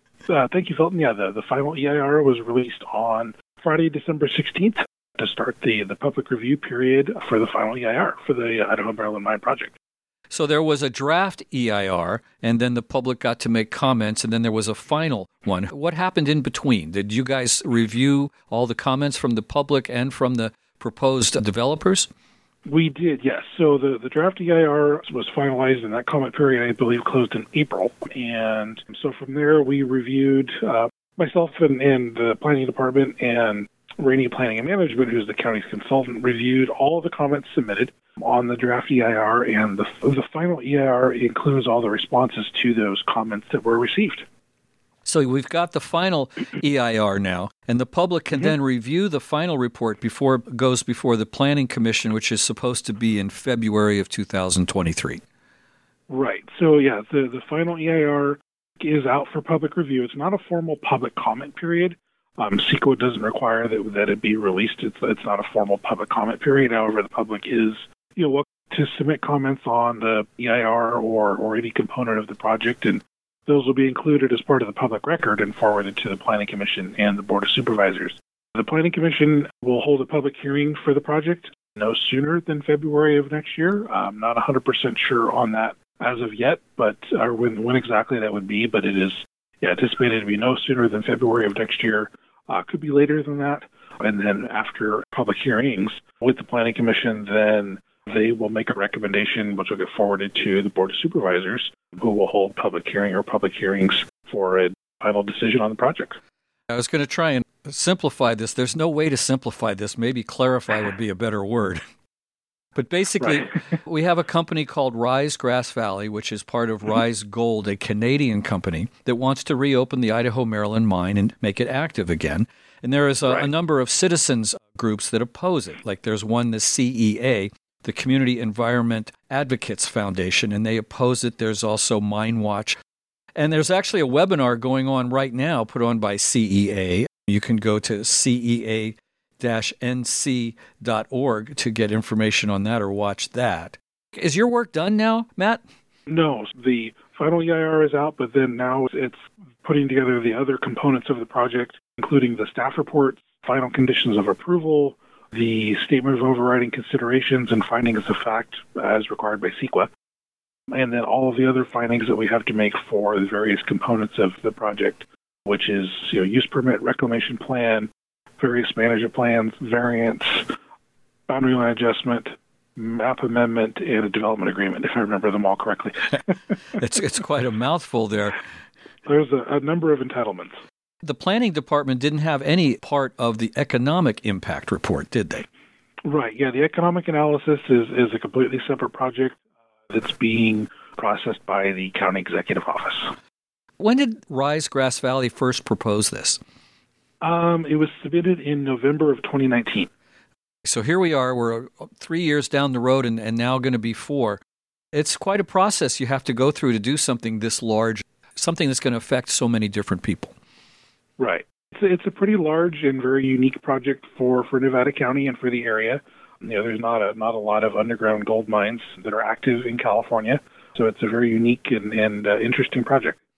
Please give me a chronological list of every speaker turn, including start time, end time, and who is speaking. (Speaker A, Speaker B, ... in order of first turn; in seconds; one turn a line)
Speaker A: 0.3-9.8
Speaker B: 10.3-22.1
Speaker A: 22.7-44.3
Speaker B: 45.0-55.2
Speaker A: 56.1-106.2
Speaker B: 106.7-111.8
Speaker B: 112.8-132.8
Speaker A: 113.2-113.5
Speaker B: 133.4-145.6
Speaker A: 146.1-159.9
Speaker A: 160.7-170.5
Speaker A: 171.3-176.6
Speaker B: 176.7-178.4
Speaker A: 179.1-180.6
Speaker B: 181.0-185.4
Speaker A: 186.1-189.4
Speaker A: 189.9-193.1
Speaker B: 193.8-196.4
Speaker A: 197.2-199.9
Speaker B: 200.7-204.4
Speaker B: 204.9-210.3
Speaker A: 211.2-223.2